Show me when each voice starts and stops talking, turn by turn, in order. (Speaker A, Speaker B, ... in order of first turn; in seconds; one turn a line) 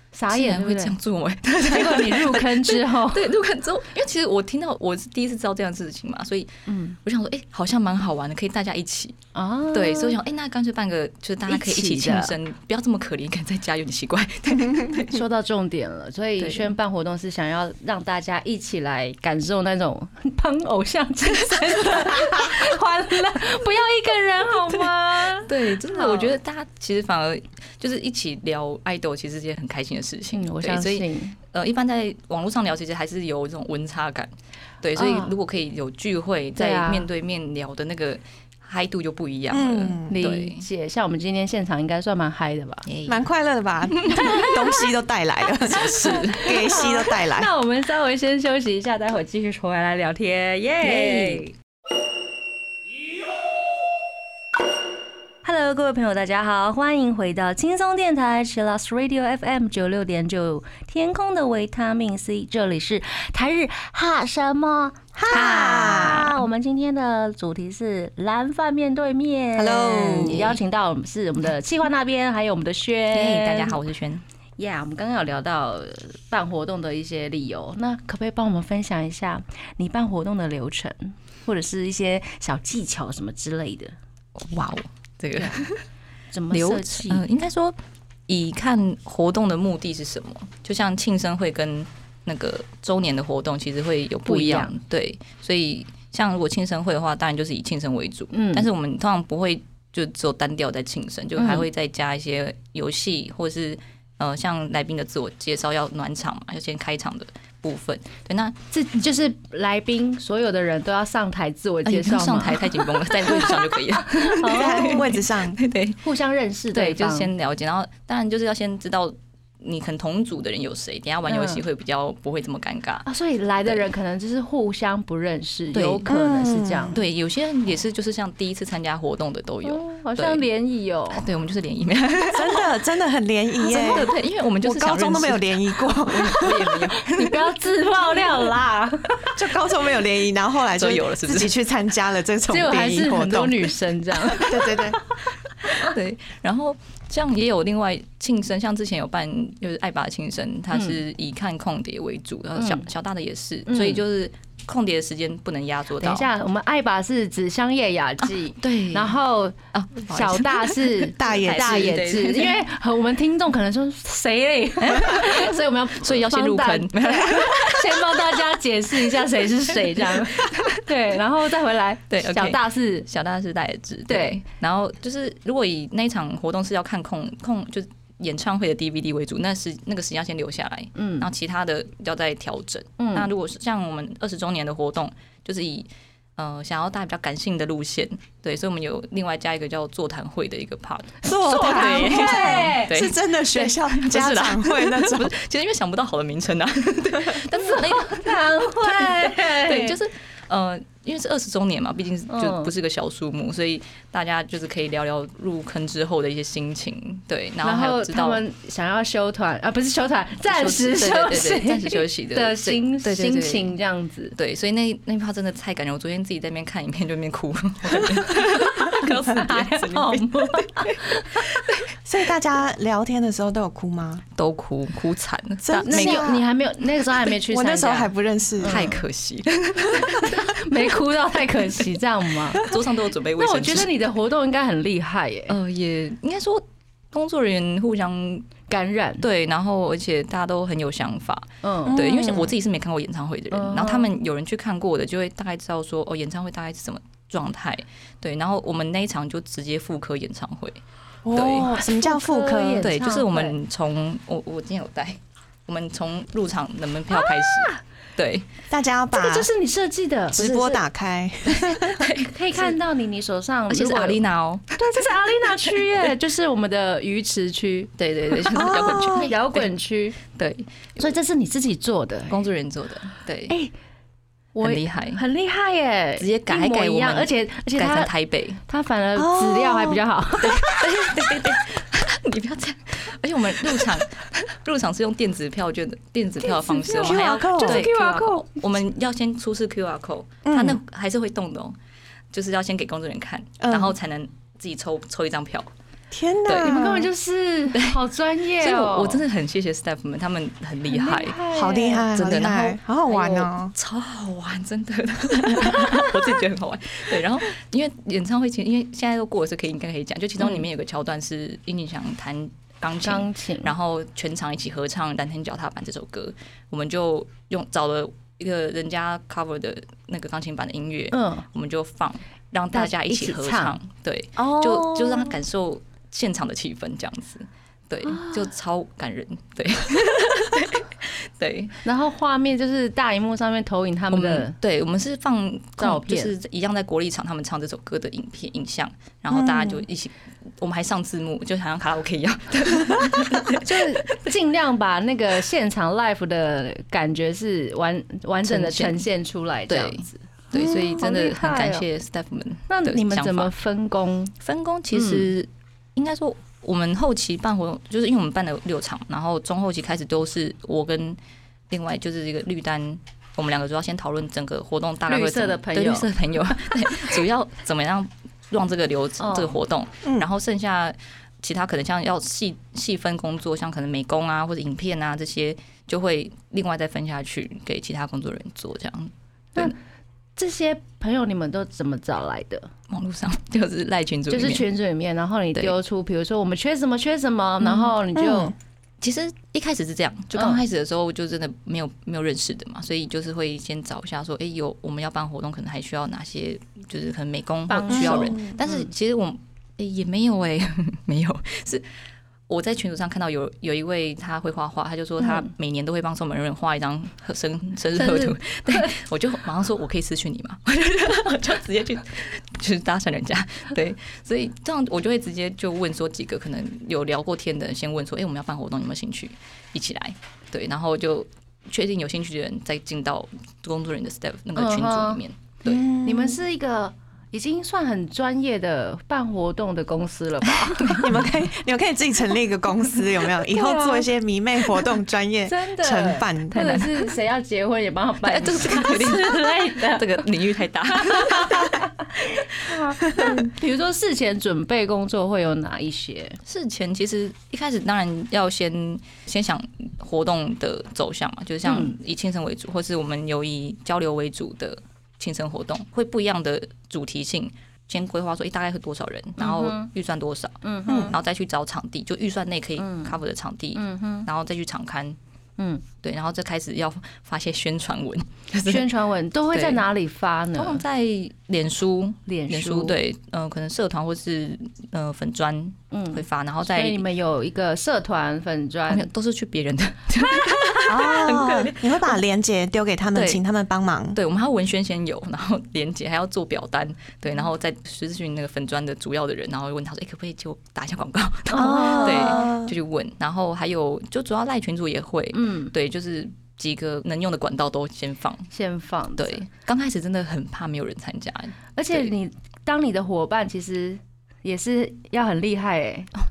Speaker A: 0.1-0.9
Speaker B: 0.3-6.5
Speaker A: 1.6-3.3
Speaker A: 6.7-7.0
Speaker B: 7.0-9.2
Speaker A: 9.3-10.2
Speaker B: 9.7-15.2
Speaker A: 11.5-12.3
Speaker A: 15.0-26.3
Speaker B: 16.4-16.7
Speaker B: 24.7-34.3
Speaker A: 30.3-31.4
Speaker B: 34.8-40.6
Speaker A: 35.0-35.3
Speaker A: 36.5-37.1
Speaker C: 39.5-40.1
Speaker A: 40.1-42.9
Speaker B: 42.9-43.2
Speaker C: 43.0-47.5
Speaker B: 43.9-44.5
Speaker A: 44.1-44.5
Speaker B: 45.7-46.4
Speaker A: 45.8-51.5
Speaker B: 50.8-51.5
Speaker A: 55.4-73.8
Speaker C: 65.2-66.3
Speaker B: 65.3-66.4
Speaker C: 69.5-70.4
Speaker B: 70.2-70.6
Speaker B: 73.1-74.2
Speaker A: 74.6-83.9
Speaker B: 84.3-85.8
Speaker A: 85.3-85.6
Speaker A: 86.3-87.2
Speaker B: 86.5-87.8
Speaker B: 88.3-108.5
Speaker A: 94.2-94.7
Speaker A: 98.3-98.7
Speaker A: 101.4-101.7
Speaker A: 108.7-115.0
Speaker B: 111.8-116.0
Speaker C: 114.5-115.6
Speaker A: 116.0-117.3
Speaker B: 116.7-123.1
Speaker A: 121.3-121.6
Speaker A: 123.0-127.0
Speaker B: 125.7-126.1
Speaker C: 126.0-127.0
Speaker B: 126.9-130.4
Speaker A: 129.6-131.2
Speaker B: 131.1-132.7
Speaker C: 132.3-134.1
Speaker B: 133.6-137.5
Speaker C: 134.6-136.8
Speaker A: 137.0-139.3
Speaker C: 139.3-143.7
Speaker B: 140.7-141.5
Speaker A: 142.5-144.9
Speaker C: 144.3-145.0
Speaker B: 145.7-156.3
Speaker A: 150.7-151.0
Speaker A: 152.6-152.8
Speaker A: 153.7-154.0
Speaker A: 156.0-159.6
Speaker B: 158.6-159.1
Speaker B: 159.7-162.6
Speaker A: 160.1-173.1
Speaker C: 161.2-161.9
Speaker B: 164.8-168.2
Speaker B: 170.0-170.8
Speaker B: 172.1-208.4
Speaker A: 174.1-174.4
Speaker A: 180.9-181.3
Speaker A: 183.0-183.3
Speaker C: 191.2-195.3
Speaker A: 191.3-192.9
Speaker A: 197.5-200.0
Speaker A: 202.3-202.7
Speaker A: 207.6-214.3
Speaker B: 210.5-213.7
Speaker B: 214.3-221.8
Speaker A: 218.3-221.4
Speaker C: 222.0-224.2
Speaker B: 224.3-226.3
Speaker C: 225.6-226.4
Speaker A: 225.8-229.0
Speaker C: 227.4-228.9
Speaker B: 228.6-230.5
Speaker A: 229.9-232.6
Speaker B: 232.5-233.9
Speaker A: 233.4-235.5
Speaker B: 235.5-238.5
Speaker A: 238.7-239.2
Speaker B: 239.2-250.8
Speaker A: 241.6-242.0
Speaker C: 241.9-242.5
Speaker A: 243.5-244.1
Speaker C: 251.2-252.9
Speaker B: 251.3-251.7
Speaker A: 251.4-253.5
Speaker B: 252.8-258.5
Speaker A: 257.2-257.8
Speaker C: 258.7-259.5
Speaker A: 259.1-260.8
Speaker C: 260.3-262.1
Speaker B: 261.5-262.8
Speaker A: 262.3-264.2
Speaker B: 263.7-265.9
Speaker A: 264.7-270.2
Speaker B: 268.0-269.7
Speaker C: 268.5-269.3
Speaker B: 270.2-271.1
Speaker A: 271.0-272.4
Speaker B: 272.3-273.5
Speaker A: 274.5-278.1
Speaker B: 274.6-275.2
Speaker B: 276.2-278.6
Speaker A: 278.7-280.6
Speaker C: 279.1-280.0
Speaker B: 280.4-291.8
Speaker A: 286.4-288.6
Speaker C: 287.0-287.8
Speaker C: 290.4-290.8
Speaker B: 292.3-295.7
Speaker C: 293.6-293.9
Speaker C: 296.1-297.1
Speaker B: 296.4-296.8
Speaker A: 296.5-299.2
Speaker B: 297.7-298.0
Speaker B: 298.6-301.4
Speaker A: 300.9-302.1
Speaker C: 301.5-303.7
Speaker B: 302.1-331.8
Speaker A: 313.0-313.7
Speaker A: 321.1-321.4
Speaker A: 322.7-323.8
Speaker C: 324.4-325.3
Speaker A: 328.1-328.4
Speaker A: 331.8-334.5
Speaker B: 334.1-344.1
Speaker A: 335.8-336.3
Speaker C: 339.3-339.8
Speaker A: 343.6-351.8
Speaker B: 348.4-349.0
Speaker B: 349.7-353.5
Speaker A: 352.7-354.3
Speaker B: 354.4-361.2
Speaker A: 354.9-355.3
Speaker B: 361.7-379.7
Speaker A: 365.1-367.1
Speaker A: 369.2-369.6
Speaker A: 380.4-382.7
Speaker B: 382.9-384.6
Speaker A: 384.3-388.5
Speaker C: 388.1-388.5
Speaker B: 389.0-401.8
Speaker A: 390.3-390.6
Speaker A: 397.7-398.9
Speaker C: 397.9-398.4
Speaker B: 402.5-425.9
Speaker A: 405.2-405.5
Speaker A: 408.0-408.9
Speaker A: 424.6-425.2
Speaker C: 425.6-426.4
Speaker A: 425.9-431.1
Speaker B: 430.7-431.1
Speaker C: 430.9-436.9
Speaker A: 433.2-434.1
Speaker A: 435.4-440.2
Speaker B: 436.6-436.8
Speaker B: 438.2-441.8
Speaker A: 440.9-446.4
Speaker B: 446.4-465.2
Speaker A: 451.6-451.9
Speaker A: 459.4-459.9
Speaker A: 460.6-461.1
Speaker C: 460.9-461.1
Speaker A: 462.8-463.2
Speaker A: 463.7-464.3
Speaker A: 465.6-465.8
Speaker B: 466.0-468.9
Speaker A: 468.6-470.8
Speaker B: 469.5-469.8
Speaker B: 470.6-477.0
Speaker A: 472.2-472.9
Speaker A: 475.9-479.1
Speaker B: 478.9-482.2
Speaker C: 480.9-484.2
Speaker B: 483.1-483.4
Speaker B: 484.1-498.5
Speaker A: 491.5-492.5
Speaker C: 491.5-492.7
Speaker A: 495.3-495.7
Speaker A: 498.5-499.4
Speaker B: 499.2-502.1
Speaker A: 501.8-506.1